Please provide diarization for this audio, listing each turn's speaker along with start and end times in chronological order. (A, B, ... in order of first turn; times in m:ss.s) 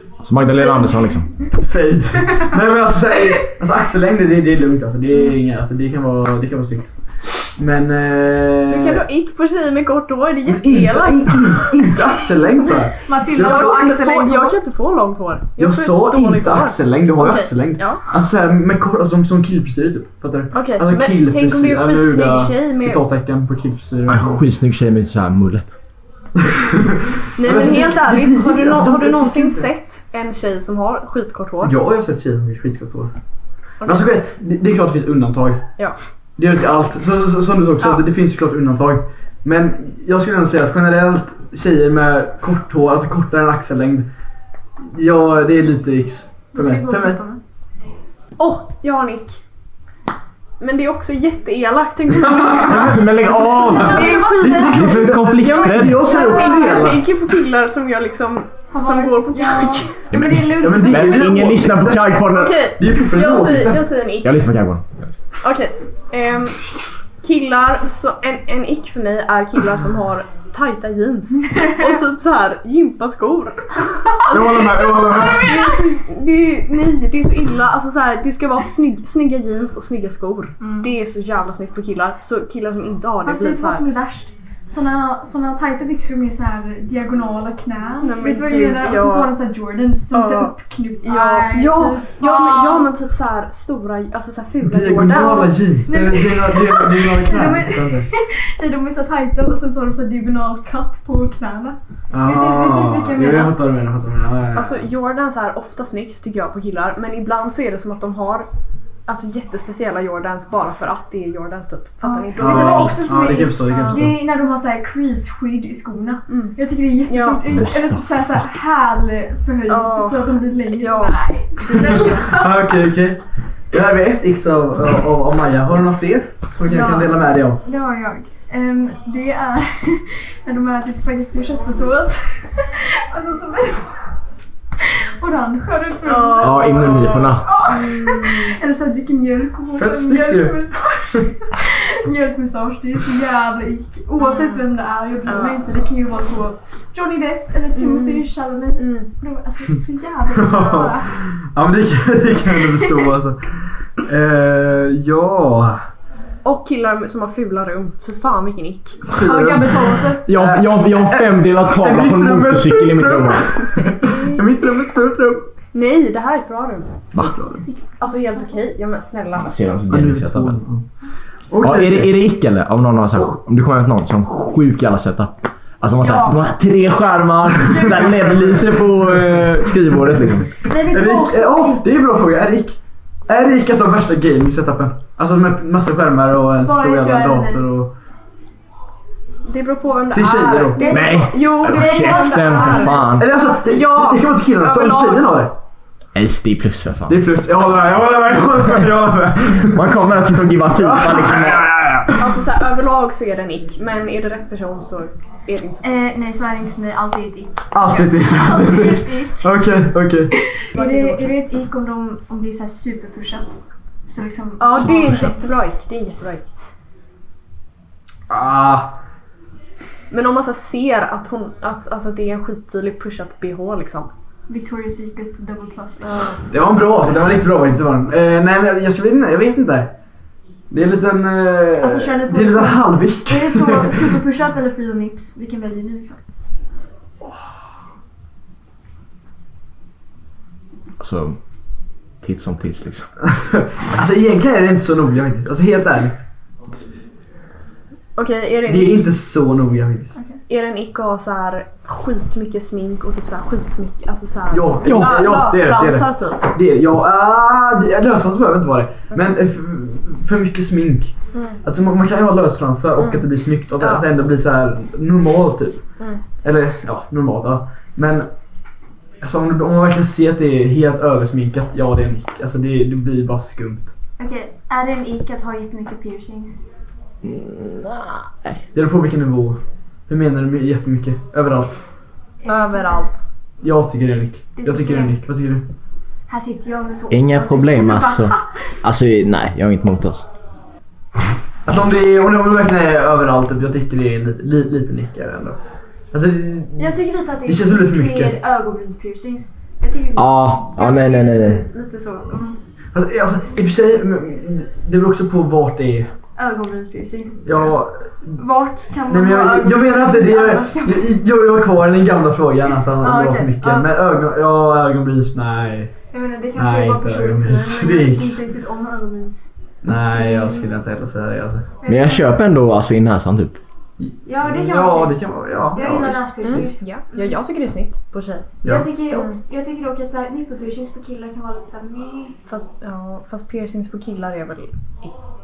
0:00.2-0:01.3 A
0:00.5-0:01.0 B
0:01.5-0:09.0 C
0:08.7-0:12.0 D
0:10.4-0:14.0 C
0:13.0-0:14.6 B
0:13.3-0:18.1 D
0:15.6-0:24.4 C
0:20.5-0:23.0 D
0:24.1-0:25.7 A
0:26.4-0:29.7 C
0:27.4-0:31.7 D
0:31.6-0:33.1 C
0:33.8-0:34.1 D
0:33.8-0:35.8 C
0:36.4-0:44.1 C
0:44.8-0:47.2 C
0:46.5-0:47.4 B
0:48.4-0:49.4 D
0:50.6-1:00.1 D
0:52.2-0:57.1 C
0:52.7-0:56.2 A
0:53.6-0:54.9 B
0:56.0-0:57.0 B
0:58.7-1:01.5 B
1:00.1-1:02.6 A
1:00.5-1:04.0 C
1:02.3-1:04.4 D
1:04.2-1:05.1 A
1:05.4-1:06.6 D
1:07.2-1:13.6 D
1:14.3-1:23.9 D
1:14.3-1:15.5 C
1:20.6-1:20.9 B
1:23.2-1:32.9 B
1:28.0-1:29.4 D
1:30.1-1:35.8 D
1:34.6-1:38.1 C
1:35.1-1:43.6 B
1:42.1-1:44.9 C
1:44.5-1:48.5 D
1:49.1-1:54.1 D
1:52.0-2:02.7 B
1:52.4-1:54.2 C
1:56.3-1:57.6 D
1:57.5-1:57.9 A
1:59.7-2:02.2 D
2:02.3-2:07.6 C
2:06.7-2:14.1 B
2:14.8-2:31.1 B
2:16.0-2:18.6 D
2:16.4-2:17.5 A
2:19.8-2:21.2 C
2:24.2-2:24.6 D
2:25.2-2:25.6 D
2:27.7-2:29.1 D
2:30.3-2:35.8 C
2:32.5-2:33.1 B
2:36.4-2:39.2 D
2:39.0-2:45.5 C
2:39.1-2:40.2 B
2:40.2-2:43.7 A
2:45.7-2:47.1 D
2:47.1-2:47.6 C
2:47.6-2:48.6 B
2:48.0-2:49.5 D
2:49.3-2:50.6 A
2:49.9-2:50.9 C
2:51.5-2:52.1 C
2:51.6-3:00.5 A
2:56.0-2:56.5 B
2:58.4-3:07.9 C
3:00.6-3:01.9 B
3:06.6-3:07.6 B
3:09.4-3:15.3 D
3:10.1-3:10.9 C
3:10.8-3:13.1 B
3:10.8-3:13.3 A
3:13.0-3:15.5 C
3:16.1-3:17.2 A
3:17.1-3:19.8 C
3:19.7-3:22.1 A
3:20.7-3:21.9 C
3:22.2-3:26.1 D
3:25.8-3:29.5 B
3:27.7-3:30.3 C
3:30.3-3:33.5 B
3:30.7-3:31.4 D
3:34.0-3:35.4 B
3:34.6-3:36.5 D
3:34.9-3:35.2 A
3:38.3-3:39.0 C
3:40.1-3:44.1 D
3:44.5-3:46.1 B
3:46.0-3:46.4 D
3:46.5-3:50.0 C
3:50.7-3:54.2 C
3:51.8-3:56.2 B
4:01.0-4:01.4 A
4:02.2-4:03.1 A
4:03.3-4:06.2 C
4:08.2-4:09.0 D
4:08.6-4:10.2 C
4:10.1-4:10.4 B
4:10.5-4:16.4 D
4:14.5-4:28.3 C
4:21.3-4:21.6 D
4:23.0-4:23.2 D
4:23.8-4:24.0 D
4:26.0-4:26.2 D
4:29.2-4:33.9 C
4:34.2-4:36.6 B
4:37.2-4:38.6 A
4:38.7-4:41.8 C
4:42.4-4:43.1 B
4:42.4-4:43.2 D
4:43.6-4:45.6 C
4:44.5-4:45.2 B
4:46.3-4:48.7 B
4:47.1-4:50.3 A
4:51.6-4:58.4 C
4:56.8-5:02.6 B
5:00.1-5:01.6 A
5:02.9-5:06.1 C
5:06.4-5:07.7 B
5:07.4-5:08.4 C
5:08.4-5:11.1 B
5:09.0-5:16.0 C
5:13.0-5:13.9 B
5:16.1-5:19.5 B
5:16.5-5:18.4 C
5:19.8-5:21.7 C
5:20.2-5:20.6 D
5:21.8-5:22.3 B
5:21.8-5:23.6 A
5:24.0-5:26.8 C
5:24.2-5:27.4 B
5:26.4-5:28.5 D
5:28.6-5:29.0 C
5:28.6-5:32.4 B
5:29.1-5:29.4 D
5:32.5-5:35.2 D